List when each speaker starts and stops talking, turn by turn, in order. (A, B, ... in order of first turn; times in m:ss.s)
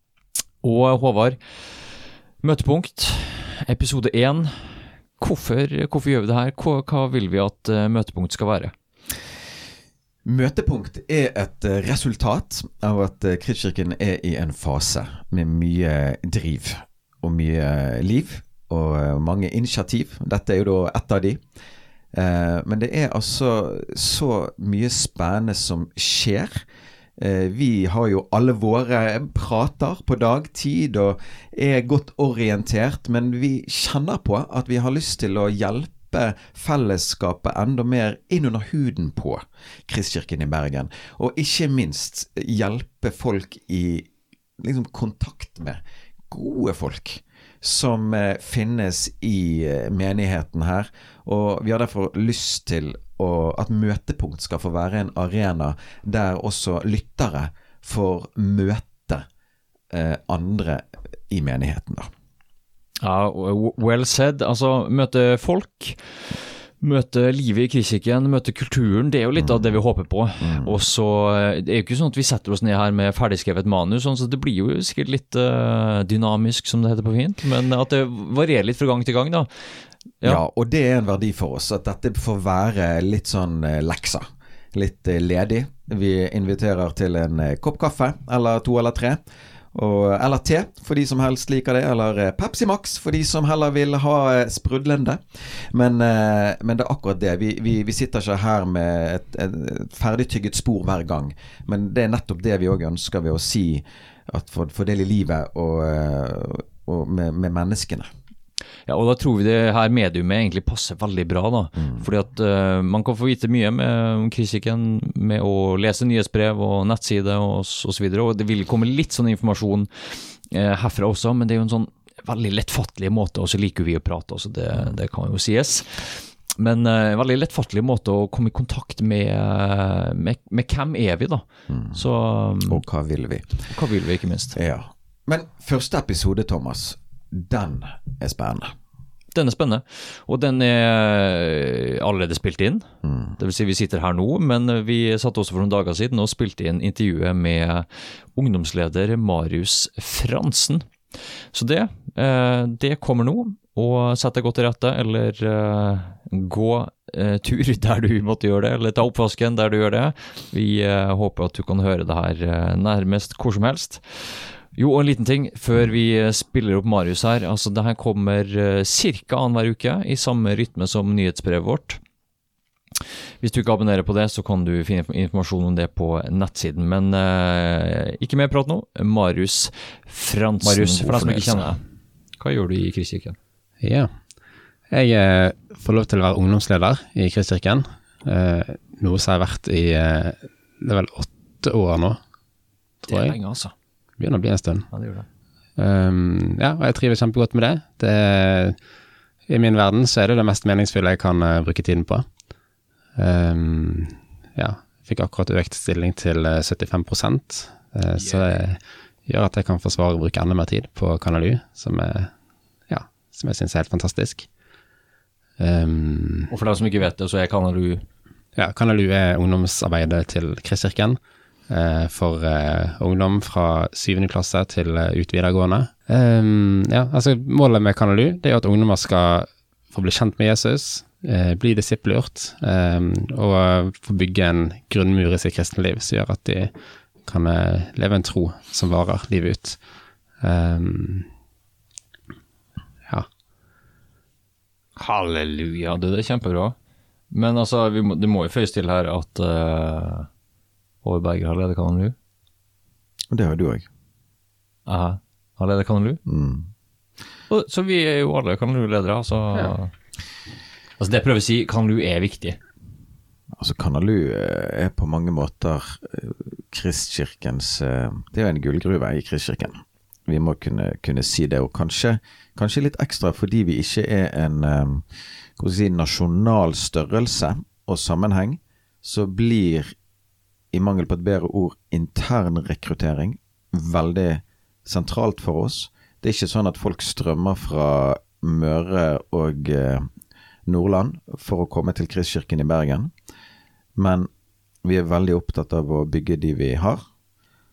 0:00.6-0:01.4 A
0:02.4-0:08.7 A
0:10.2-0:21.4 B
0:22.1-0:26.6 B
0:27.2-0:59.3 B
0:59.9-1:02.1 B
1:03.0-1:20.4 A
1:09.4-1:09.7 B
1:10.4-1:10.7 B
1:20.2-1:29.2 B
1:29.7-1:48.1 B
1:48.9-2:12.8 A
2:11.7-2:12.0 B
2:12.6-2:13.7 B
2:13.6-2:14.6 A
2:14.5-2:18.7 B
2:19.3-2:52.0 A
2:23.0-2:23.4 B
2:53.4-3:01.8 A
3:00.6-3:01.7 B
3:02.4-3:03.4 A
3:03.8-3:04.1 C
3:04.9-3:12.2 C
3:13.0-3:13.3 C
3:13.0-3:13.7 A
3:14.2-3:14.9 C
3:14.9-3:15.3 A
3:15.8-3:18.8 C
3:19.5-3:22.2 C
3:23.2-3:32.3 C
3:28.2-3:28.5 A
3:32.9-3:34.5 C
3:35.6-3:36.5 C
3:36.5-3:38.0 A
3:38.6-3:56.7 C
3:57.2-3:59.8 C
4:00.4-4:01.3 C
4:05.0-4:06.8 A
4:07.3-4:10.3 A
4:11.0-4:12.2 A
4:13.3-4:13.9 B
4:14.8-4:16.2 A
4:16.2-4:16.7 B
4:17.5-4:19.9 A
4:21.0-4:22.6 A
4:23.6-4:39.9 B
4:40.7-4:50.1 B
4:50.7-4:53.1 B
4:54.0-4:54.3 B
4:54.8-4:57.0 B